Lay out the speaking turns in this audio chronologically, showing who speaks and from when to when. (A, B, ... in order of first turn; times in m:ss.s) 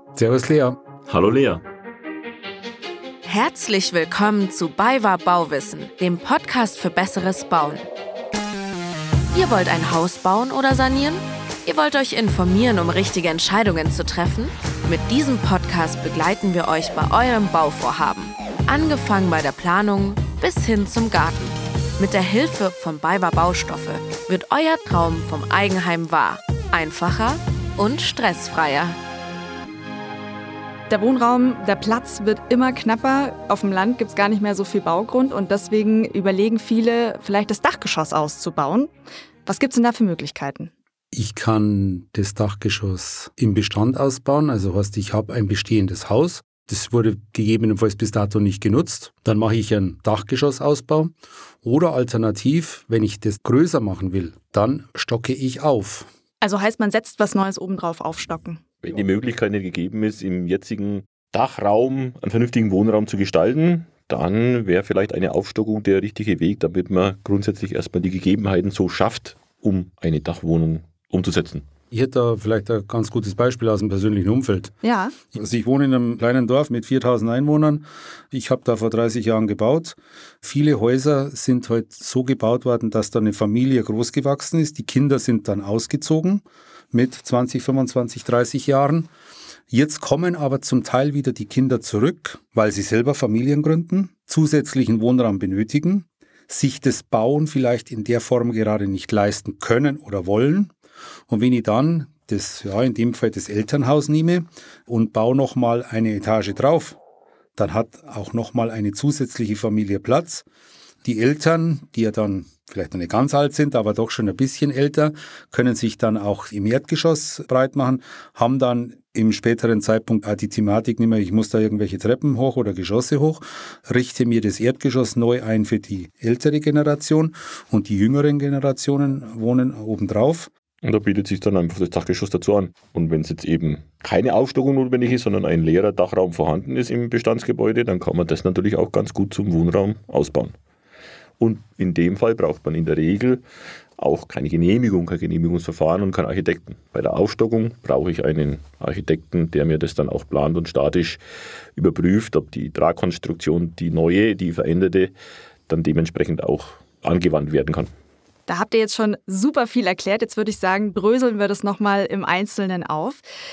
0:00.1-0:00.8 A
0:01.1-0:01.6 B
0:03.2-0:07.8 C
0:09.3-0:29.0 C
0:30.9-0:38.9 D
0:39.4-0:40.7 D
0:41.1-0:56.1 A
0:56.4-0:58.6 D
0:58.8-1:11.6 B
1:11.9-1:14.7 A
1:14.8-1:15.2 D
1:15.3-1:29.1 A
1:29.7-1:40.7 A
1:41.3-1:47.0 A
1:47.6-1:50.4 A
1:51.0-2:10.5 A
2:10.8-2:20.5 B
2:21.4-2:23.4 B
2:24.0-2:31.2 B
2:31.8-2:35.1 B
2:35.7-2:37.9 B
2:38.5-2:43.2 D